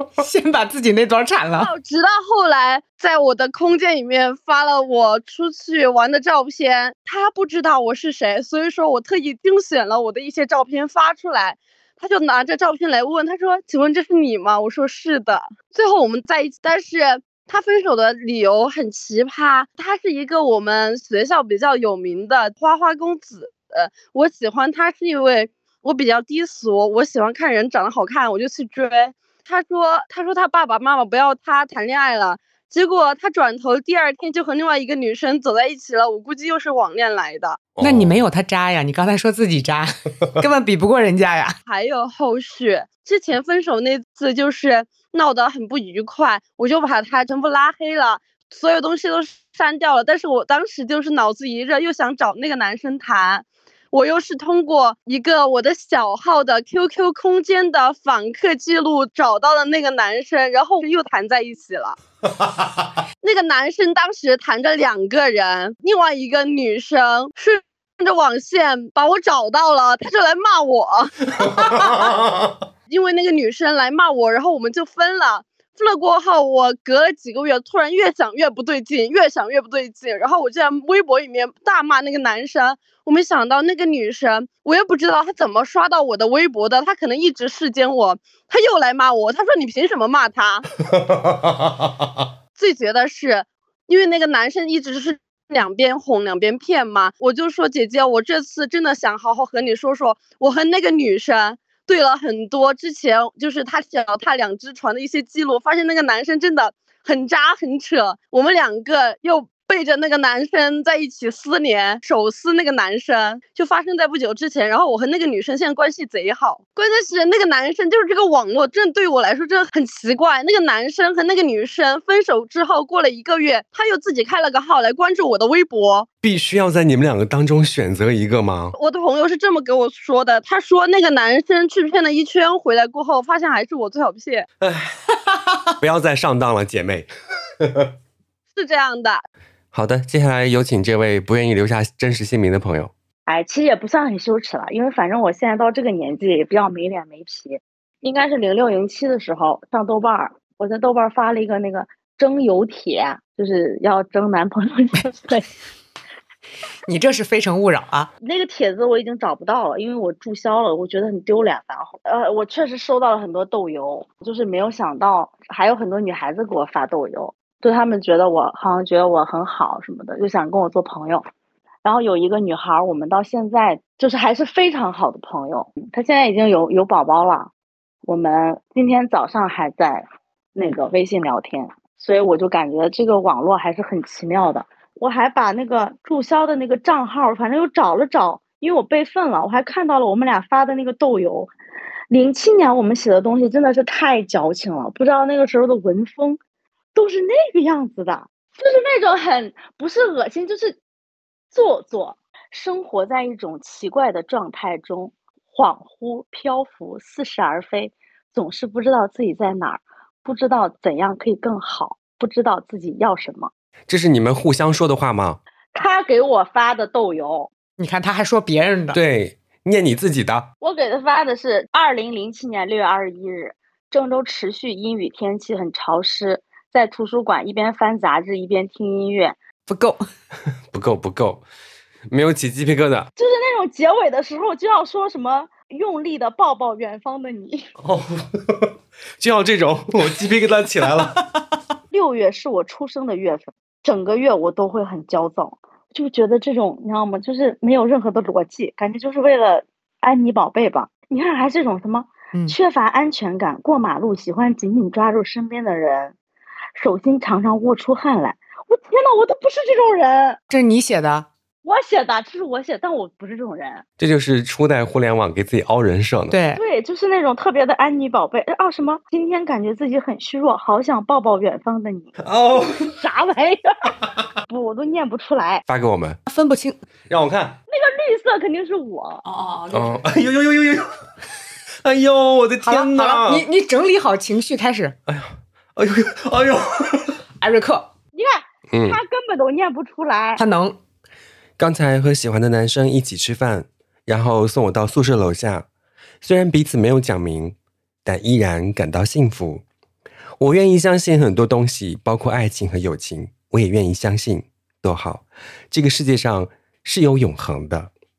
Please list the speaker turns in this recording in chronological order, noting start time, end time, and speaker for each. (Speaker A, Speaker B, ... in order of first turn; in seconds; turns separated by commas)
Speaker A: 0.2-1.7, Speaker B: 1.6-37.6, Speaker C: 37.8-38.2, Speaker A: 37.8-41.6, Speaker B: 41.7-62.0, Speaker B: 63.2-72.1, Speaker C: 71.5-72.4, Speaker B: 72.9-90.7, Speaker C: 91.1-91.5, Speaker B: 92.6-126.1, Speaker C: 126.2-128.8, Speaker B: 128.8-134.5, Speaker C: 134.6-134.9, Speaker C: 135.7-137.1, Speaker C: 137.6-137.9, Speaker B: 138.6-139.2, Speaker C: 139.7-142.9, Speaker D: 143.3-155.4, Speaker A: 156.9-158.1, Speaker D: 158.2-171.2, Speaker D: 171.8-177.5, Speaker D: 178.1-191.5, Speaker D: 192.1-196.4, Speaker D: 196.9-200.8, Speaker D: 201.5-213.5, Speaker C: 213.9-215.4, Speaker D: 215.8-217.5, Speaker A: 217.8-219.0, Speaker C: 218.9-220.5, Speaker D: 220.6-229.4, Speaker A: 229.7-230.1, Speaker C: 230.7-231.4, Speaker C: 232.1-233.1, Speaker D: 233.2-237.6, Speaker C: 237.8-241.2, Speaker D: 241.9-256.1, Speaker D: 256.8-260.4, Speaker A: 260.5-261.3, Speaker D: 261.6-263.9, Speaker C: 264.0-266.4, Speaker A: 266.3-266.6, Speaker D: 266.6-273.9, Speaker C: 272.2-272.9, Speaker D: 274.5-275.6, Speaker C: 275.7-276.2, Speaker A: 276.3-276.8, Speaker C: 277.1-277.6, Speaker D: 277.7-279.2, Speaker A: 279.2-280.1, Speaker C: 279.7-280.9, Speaker C: 281.8-283.4, Speaker A: 282.6-285.0, Speaker C: 285.1-287.2, Speaker A: 287.4-287.9, Speaker D: 288.1-290.4, Speaker C: 288.7-289.0, Speaker A: 290.4-290.8, Speaker C: 291.6-295.7, Speaker C: 296.2-299.6, Speaker C: 300.4-307.9